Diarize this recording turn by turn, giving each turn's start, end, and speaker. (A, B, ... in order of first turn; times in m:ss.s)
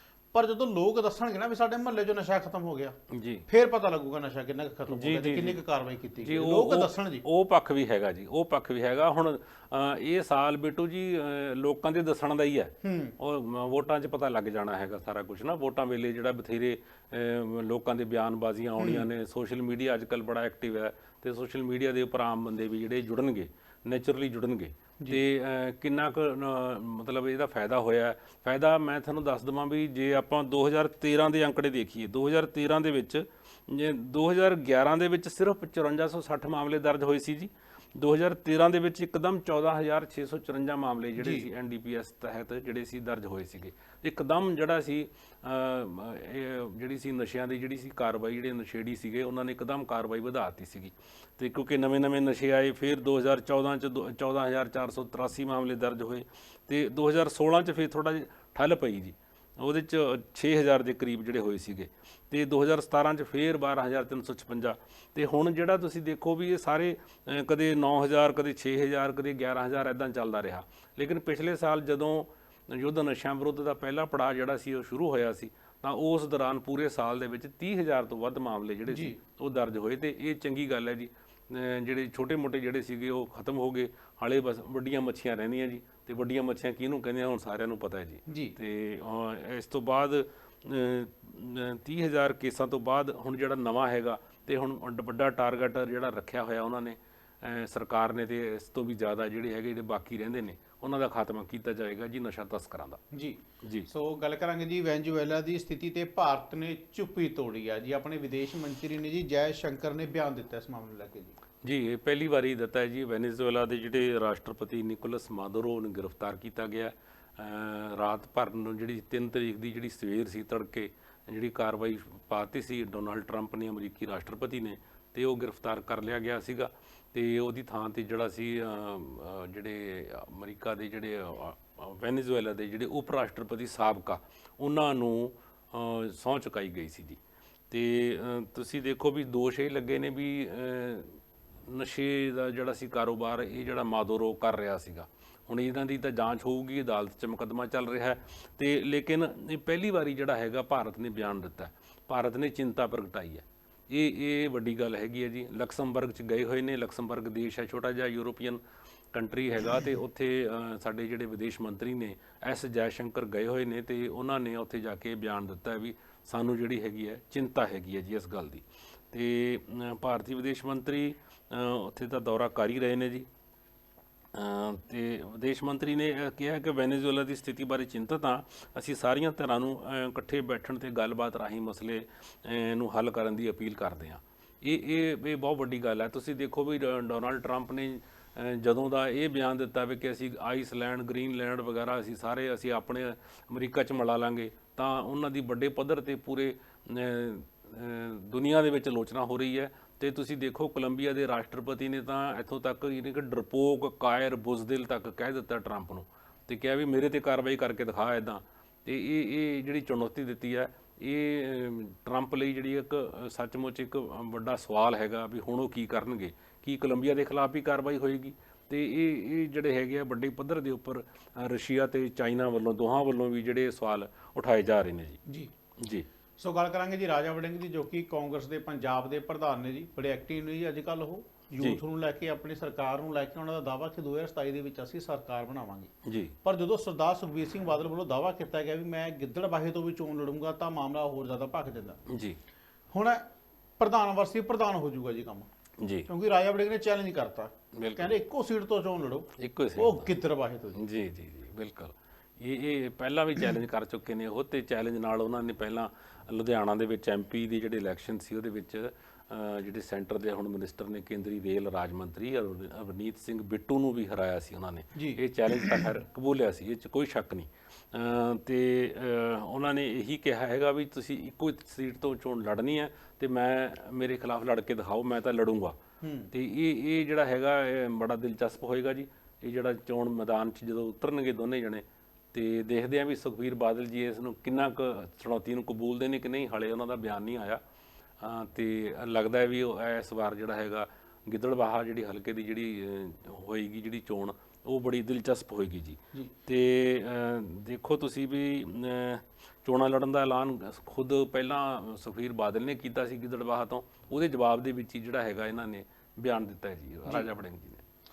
0:00.3-0:03.0 A
0:03.1-0:03.5 B
0:03.5-0:07.2 A
0:04.9-0:05.6 B
0:06.2-1:43.0 B
0:12.8-0:13.2 A
0:18.8-0:19.1 A
0:41.2-0:41.5 A
1:18.9-1:19.2 A
1:28.3-1:28.6 A
1:43.1-1:51.4 A
1:43.6-1:43.9 B
1:51.6-2:17.2 B
2:17.7-2:38.6 B
2:39.1-2:53.3 B
2:54.3-3:45.2 B
3:45.3-3:45.5 A
3:45.8-3:46.1 B
3:46.4-3:55.9 A
3:56.0-3:56.4 B
3:56.4-4:02.0 A
4:02.1-4:02.4 B
4:02.9-4:03.3 A
4:03.8-4:05.5 A
4:05.8-4:06.1 B
4:06.1-4:10.8 A
4:07.7-4:08.2 B
4:09.4-4:10.1 B
4:10.8-4:35.8 B
4:25.0-4:25.8 A
4:36.0-4:36.3 A
4:36.3-4:47.6 B
4:48.2-5:07.8 B